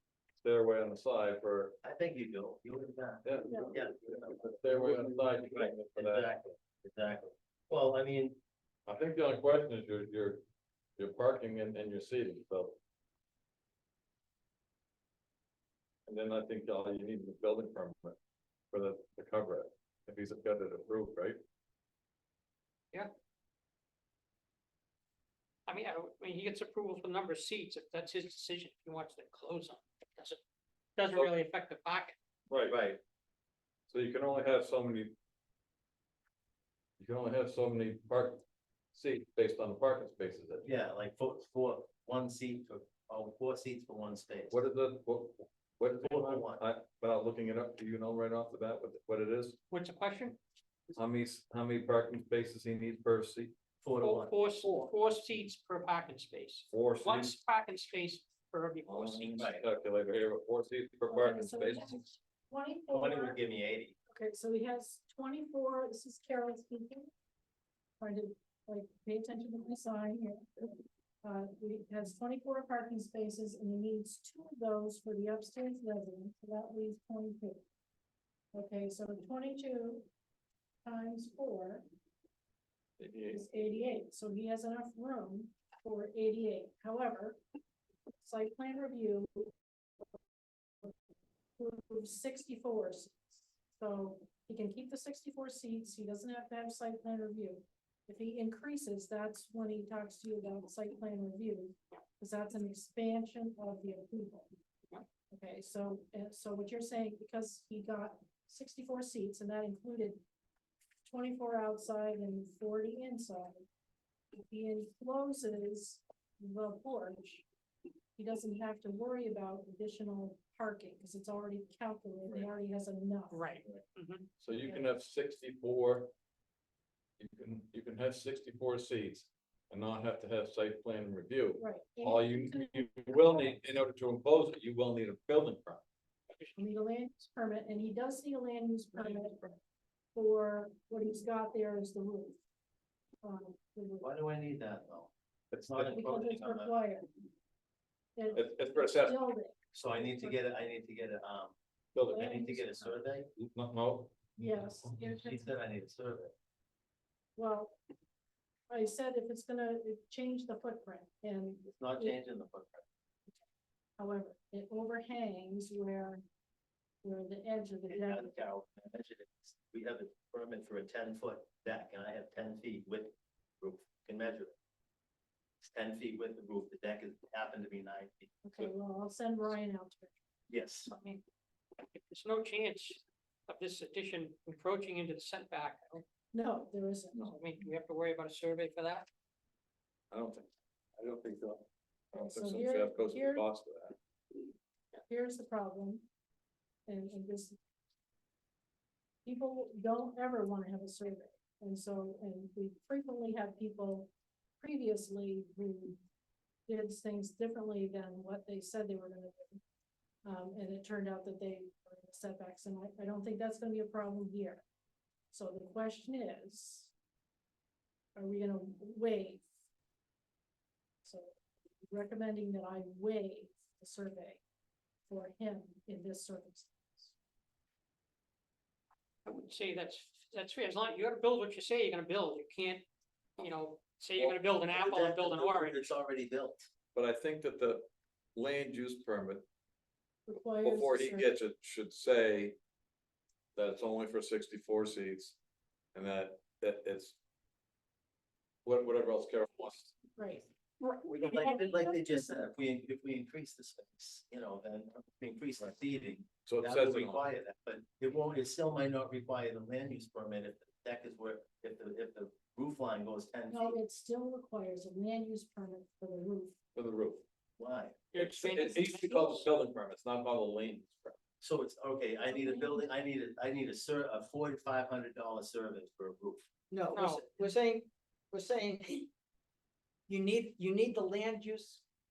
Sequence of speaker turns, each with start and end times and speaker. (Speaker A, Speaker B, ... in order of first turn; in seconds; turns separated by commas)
Speaker A: 0.4-1.8, Speaker B: 1.8-8.4, Speaker A: 3.2-6.3, Speaker C: 3.5-3.7, Speaker A: 8.9-10.4, Speaker A: 11.0-12.8, Speaker A: 16.1-18.2, Speaker A: 18.7-21.4, Speaker D: 25.7-30.4, Speaker D: 31.0-32.1, Speaker A: 32.5-32.8, Speaker B: 32.7-33.0, Speaker A: 33.9-35.1, Speaker A: 37.0-38.4, Speaker A: 38.9-40.7, Speaker B: 40.6-44.6, Speaker A: 44.5-49.6, Speaker B: 46.0-46.6, Speaker D: 49.7-50.4, Speaker A: 51.0-53.5, Speaker B: 53.8-54.7, Speaker D: 54.0-59.5, Speaker A: 56.7-57.4, Speaker A: 58.9-62.0, Speaker B: 59.3-59.6, Speaker C: 61.1-63.4, Speaker B: 62.9-64.0, Speaker C: 64.1-67.1, Speaker C: 68.0-77.6, Speaker C: 78.5-80.1, Speaker C: 80.8-81.8, Speaker A: 83.0-83.4, Speaker C: 83.3-87.4, Speaker C: 88.2-89.5, Speaker C: 91.6-104.5, Speaker C: 105.3-110.2, Speaker C: 111.0-113.6, Speaker C: 114.3-117.4, Speaker C: 118.2-123.5, Speaker D: 123.3-124.3, Speaker A: 124.4-126.1, Speaker A: 127.2-135.8, Speaker C: 131.6-133.6, Speaker D: 136.3-136.6, Speaker C: 136.6-139.5, Speaker A: 138.9-139.5, Speaker C: 140.1-142.4, Speaker C: 143.2-144.1, Speaker B: 144.0-146.8, Speaker A: 145.5-146.0, Speaker C: 145.9-147.1, Speaker C: 148.2-150.4, Speaker A: 148.3-149.2, Speaker B: 149.7-151.5, Speaker A: 151.9-152.3, Speaker C: 152.1-152.9, Speaker B: 152.2-153.3, Speaker A: 153.4-154.2, Speaker C: 154.3-155.5, Speaker B: 155.2-156.3, Speaker C: 157.3-157.8, Speaker C: 158.7-162.2, Speaker B: 161.6-162.8, Speaker C: 164.0-166.2, Speaker C: 167.0-168.3, Speaker B: 167.9-174.5, Speaker B: 175.6-178.3, Speaker C: 178.4-180.2, Speaker B: 180.5-180.9, Speaker D: 180.9-181.2, Speaker D: 181.8-186.0, Speaker C: 186.3-187.3, Speaker A: 187.1-187.4, Speaker D: 187.3-189.1, Speaker A: 190.1-193.9, Speaker C: 192.1-193.4, Speaker C: 195.0-196.1, Speaker C: 196.8-197.6, Speaker C: 199.2-206.0, Speaker C: 206.7-209.6, Speaker C: 210.2-214.6, Speaker C: 215.3-216.9, Speaker C: 218.1-219.4, Speaker C: 221.0-221.3, Speaker C: 221.9-224.4, Speaker C: 225.1-227.1, Speaker D: 229.2-232.8, Speaker D: 233.4-235.9, Speaker B: 234.2-236.7, Speaker A: 236.9-239.4, Speaker C: 240.3-241.3, Speaker A: 240.6-242.6, Speaker A: 243.5-245.4, Speaker A: 245.9-247.2, Speaker A: 248.6-249.9, Speaker C: 250.2-250.5, Speaker B: 251.1-263.8, Speaker C: 251.3-252.3, Speaker A: 256.4-257.2, Speaker C: 263.5-266.5, Speaker A: 266.7-267.2, Speaker B: 267.6-268.1, Speaker D: 268.1-269.5, Speaker A: 268.1-271.1, Speaker B: 271.4-276.5, Speaker C: 272.3-272.9, Speaker E: 276.7-279.1, Speaker D: 276.9-277.2, Speaker E: 280.1-281.8